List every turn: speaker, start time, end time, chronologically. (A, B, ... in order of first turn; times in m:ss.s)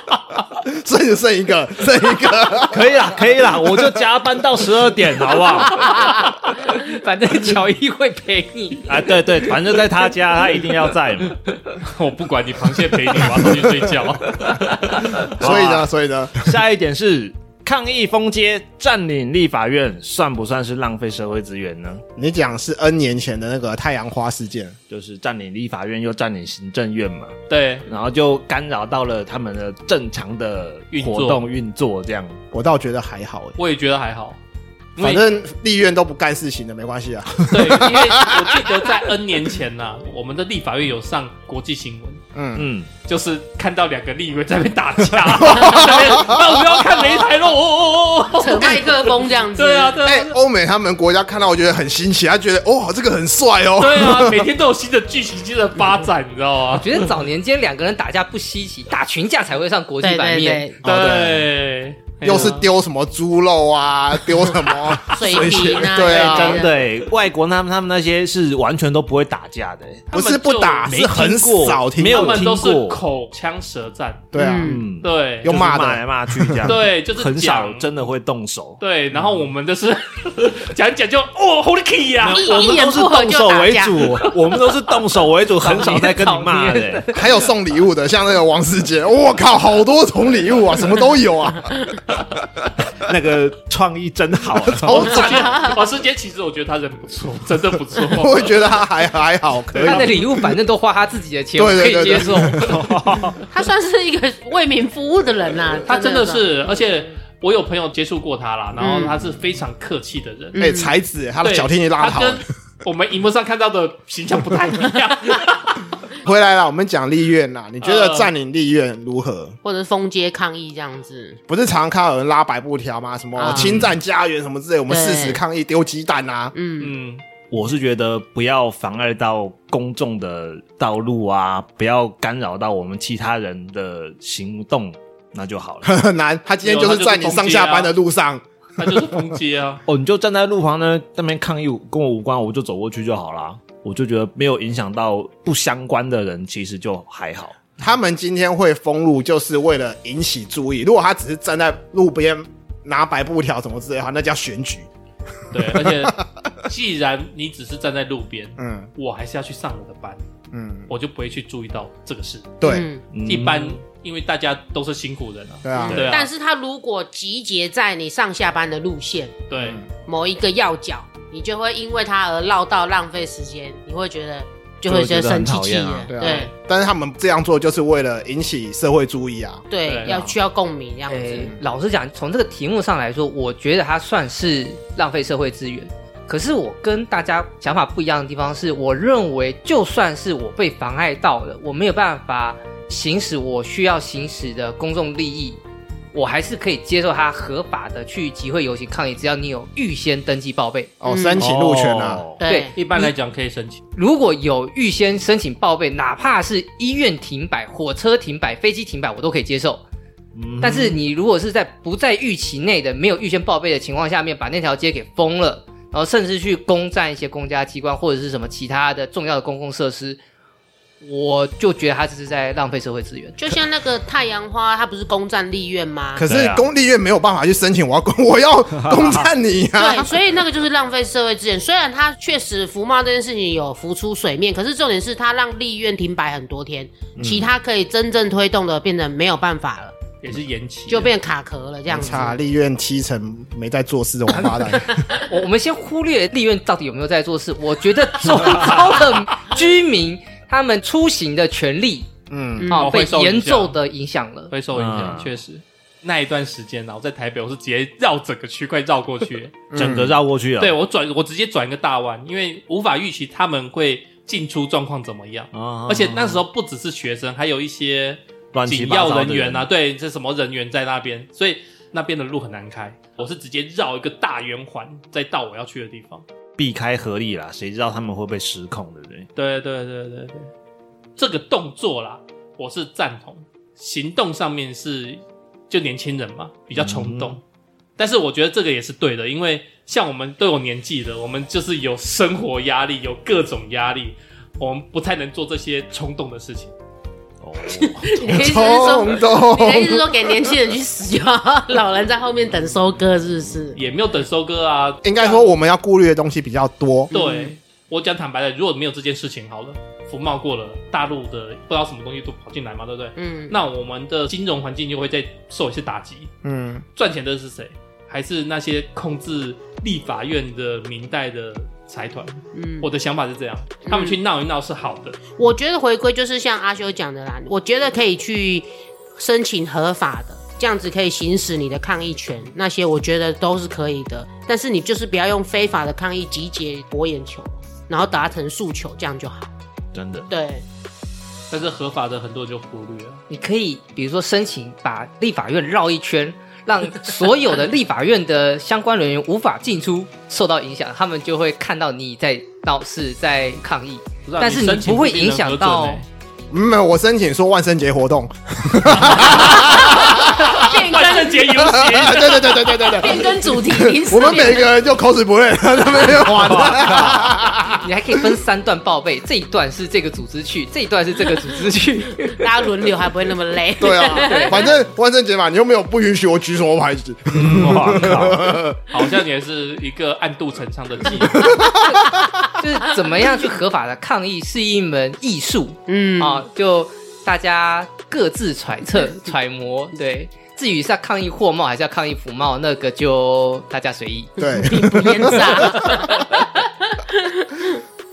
0:00.6-0:02.9 A
0:02.7-0:05.9 B
0:05.5-0:09.4 C
0:06.0-0:06.2 D
0:08.9-0:11.4 B
0:11.8-0:15.3 E
0:15.1-0:15.9 B
0:15.4-0:16.5 A
0:16.4-0:22.0 B
0:22.2-0:24.8 A
0:24.9-0:32.4 B
0:27.5-0:27.8 E
0:30.9-0:31.4 E
0:32.5-0:33.6 A
0:33.6-0:34.4 E
0:35.0-0:35.2 E
0:35.0-0:38.7 A
0:37.5-0:42.2 E
0:42.3-0:42.7 A
0:42.6-0:42.9 B
0:43.0-0:50.3 E
0:45.2-0:46.8 A
0:48.4-0:50.0 D
0:50.0-0:54.5 A
0:53.8-0:57.1 E
0:56.7-1:00.7 C
1:00.0-1:00.8 D
1:00.8-1:01.5 A
1:00.8-1:02.6 E
1:02.2-1:06.7 A
1:04.6-1:06.8 D
1:05.4-1:10.1 B
1:10.1-1:10.9 E
1:10.1-1:12.4 A
1:10.8-1:13.0 B
1:12.1-1:14.2 E
1:14.3-1:14.8 A
1:14.3-1:14.8 D
1:14.6-1:18.8 B
1:15.0-1:15.5 E
1:15.4-1:16.7 A
1:16.6-1:17.9 E
1:18.8-1:22.6 E
1:22.2-1:27.1 B
1:22.3-1:24.3 D
1:25.6-1:27.2 C
1:27.1-1:31.8 A
1:32.9-1:35.2 B
1:34.7-1:35.7 A
1:34.9-1:38.6 E
1:35.1-1:35.8 D
1:38.0-1:40.5 A
1:39.8-1:42.8 C
1:41.6-1:42.8 A
1:42.6-1:43.4 B
1:43.5-1:46.5 D
1:45.8-1:50.6 E
1:48.8-1:49.2 D
1:50.6-1:50.9 D
1:50.6-1:52.4 A
1:51.4-1:55.8 E
1:56.2-1:59.6 A
1:57.8-1:58.3 E
1:59.6-2:01.4 D
2:01.5-2:06.5 A
2:03.4-2:03.8 D
2:03.6-2:03.9 B
2:04.9-2:05.4 D
2:06.5-2:06.9 D
2:06.8-2:07.2 E
2:07.5-2:15.9 B
2:15.8-2:19.2 A
2:16.6-2:17.9 E
2:18.8-2:19.8 E
2:19.9-2:27.6 B
2:27.8-2:34.9 A
2:35.5-2:40.2 E
2:35.5-2:36.2 A
2:38.6-2:38.9 A
2:40.5-2:40.9 A
2:40.9-2:42.6 E
2:42.6-2:42.9 A
2:42.6-2:43.0 D
2:43.1-2:43.7 B
2:43.2-2:46.3 E
2:45.6-2:46.1 A
2:45.8-2:49.3 D
2:49.5-2:49.8 E
2:49.6-2:49.8 A
2:50.0-2:56.5 D
2:54.8-2:56.1 B
2:56.1-3:00.3 A
2:59.7-3:01.6 D
2:59.8-3:00.1 E
3:01.1-3:15.6 C
3:16.1-3:20.9 C
3:21.0-3:22.2 A
3:21.1-3:21.4 D
3:21.4-3:22.4 B
3:22.4-3:22.7 D
3:22.4-3:23.1 C
3:22.7-3:23.8 E
3:24.0-3:29.8 C
3:30.3-3:31.0 B
3:30.6-3:40.2 C
3:41.0-3:43.4 C
3:43.4-3:46.2 D
3:46.1-3:50.1 A
3:46.2-3:46.6 B
3:48.8-3:49.2 B
3:49.8-3:59.9 D
3:57.2-3:57.4 B
3:57.2-3:57.4 A
4:00.2-4:01.1 E
4:00.9-4:02.4 D
4:01.9-4:05.1 A
4:05.2-4:12.1 C
4:12.3-4:12.7 A
4:12.6-4:12.9 D
4:12.7-4:13.8 E
4:12.7-4:14.5 C
4:14.5-4:19.6 E
4:14.7-4:15.3 B
4:19.7-4:20.2 A
4:19.7-4:20.8 B
4:20.6-4:36.2 E
4:25.5-4:26.4 B
4:28.5-4:29.6 B
4:36.6-4:39.3 B
4:39.4-4:40.5 E
4:41.2-4:47.4 E
4:46.8-4:47.4 B
4:48.0-4:56.7 E
4:57.4-4:58.2 B
4:57.7-5:03.8 D
4:58.2-5:00.5 A
5:03.7-5:05.5 E
5:05.0-5:07.1 A
5:07.1-5:07.5 D
5:07.1-5:16.3 E
5:13.2-5:13.5 D
5:16.4-5:16.8 A
5:17.0-5:25.2 E
5:22.5-5:22.9 D
5:23.9-5:24.2 D
5:25.4-5:39.5 D
5:39.9-5:40.3 B
5:40.3-5:40.6 D
5:41.5-5:43.2 E
5:43.3-5:56.0 C
5:54.2-5:56.0 E
5:56.5-6:00.7 A
5:59.1-6:02.7 E
5:59.1-6:04.7 D
6:01.5-6:07.9 A
6:06.5-6:07.3 B
6:07.8-6:12.5 C
6:12.3-6:14.7 D
6:13.8-6:18.8 A
6:17.3-6:18.6 B
6:18.8-6:21.6 E
6:21.4-6:22.2 A
6:22.5-6:34.3 C
6:25.9-6:26.4 D
6:34.4-6:36.2 A
6:34.6-6:37.8 D